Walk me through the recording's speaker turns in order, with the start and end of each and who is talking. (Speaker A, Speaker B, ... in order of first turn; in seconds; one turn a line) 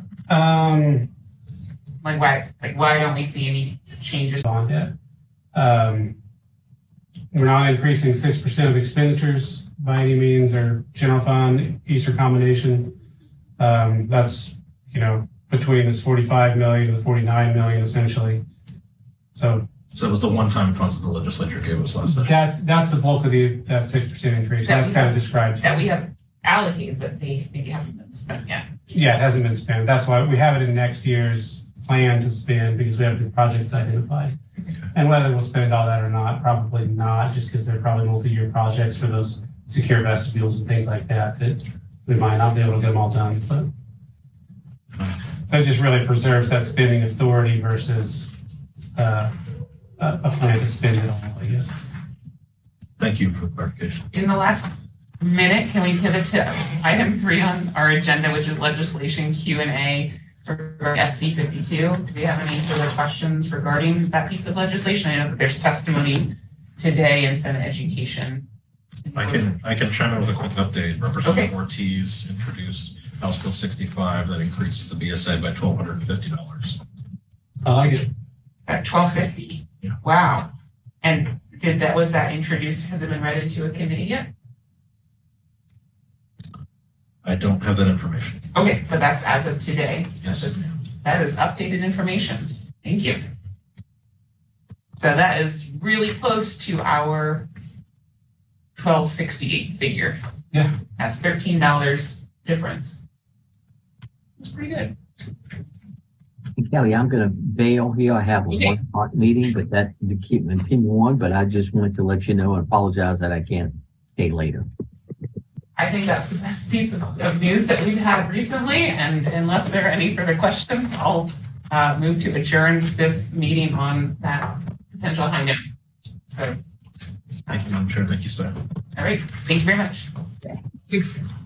Speaker A: 0.3-1.1
Speaker B: 2.0-4.5
Speaker A: 4.4-4.9
Speaker A: 5.5-6.1
Speaker A: 7.3-12.9
Speaker A: 13.6-18.4
Speaker A: 19.3-19.7
Speaker C: 19.9-22.3
Speaker A: 22.1-25.8
Speaker B: 24.6-28.7
Speaker A: 28.9-34.4
Speaker A: 34.9-43.7
Speaker A: 45.5-48.3
Speaker A: 48.9-49.3
Speaker A: 50.0-51.7
Speaker C: 53.0-54.0
Speaker B: 54.1-68.5
Speaker B: 69.0-69.5
Speaker C: 69.1-76.8
Speaker B: 71.2-71.5
Speaker A: 77.6-78.0
Speaker B: 78.7-80.5
Speaker B: 81.0-84.3
Speaker C: 87.2-88.4
Speaker B: 88.5-93.2
Speaker C: 90.2-90.6
Speaker B: 95.0-97.5
Speaker B: 98.8-100.2
Speaker B: 101.0-103.0
Speaker B: 104.4-104.9
Speaker D: 106.6-114.7
Speaker B: 115.8-125.6
Speaker C: 127.5-128.6
Speaker B: 128.9-130.1
Speaker B: 130.9-131.2